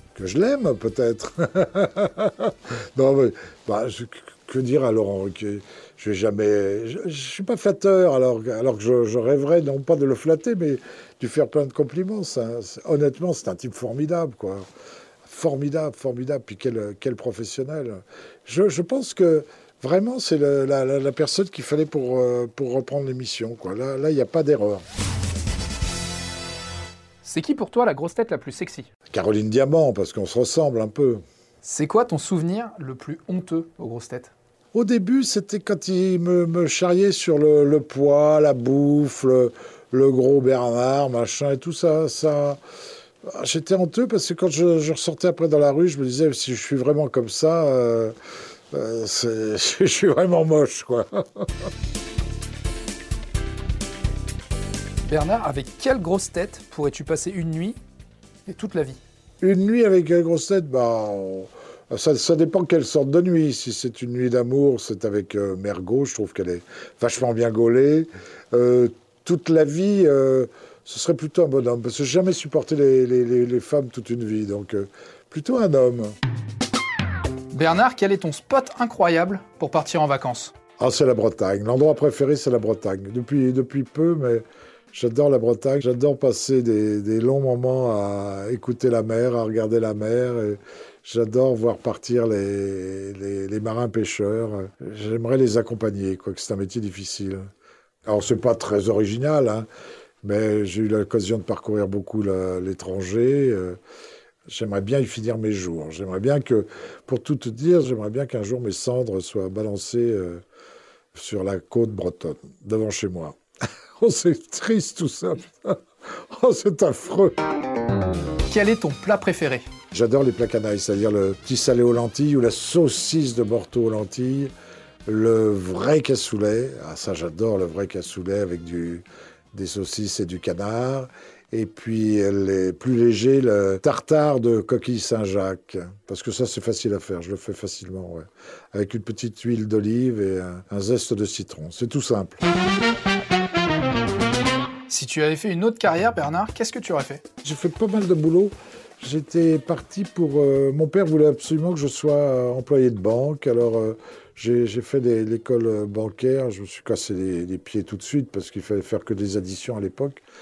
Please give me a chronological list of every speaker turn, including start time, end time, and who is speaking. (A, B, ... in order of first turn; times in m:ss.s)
0:00.1-0:14.7 A
0:15.2-0:24.8 A
0:27.2-0:28.9 B
0:29.1-0:31.2 A
0:31.6-0:34.3 B
0:34.7-0:42.6 A
0:43.2-0:48.1 A
0:48.7-0:51.7 A
0:55.1-0:57.8 B
0:58.5-0:59.0 B
0:59.4-1:16.2 A
1:17.5-1:20.5 B
1:20.8-1:37.4 A
1:38.1-1:39.7 A
1:40.2-1:43.8 A
1:44.5-1:50.4 A
1:51.1-1:53.4 A
1:54.0-1:57.4 A
1:58.5-1:59.6 B
1:59.9-2:04.5 A
2:05.1-2:22.4 A
2:24.9-2:27.2 B
2:27.4-2:40.2 A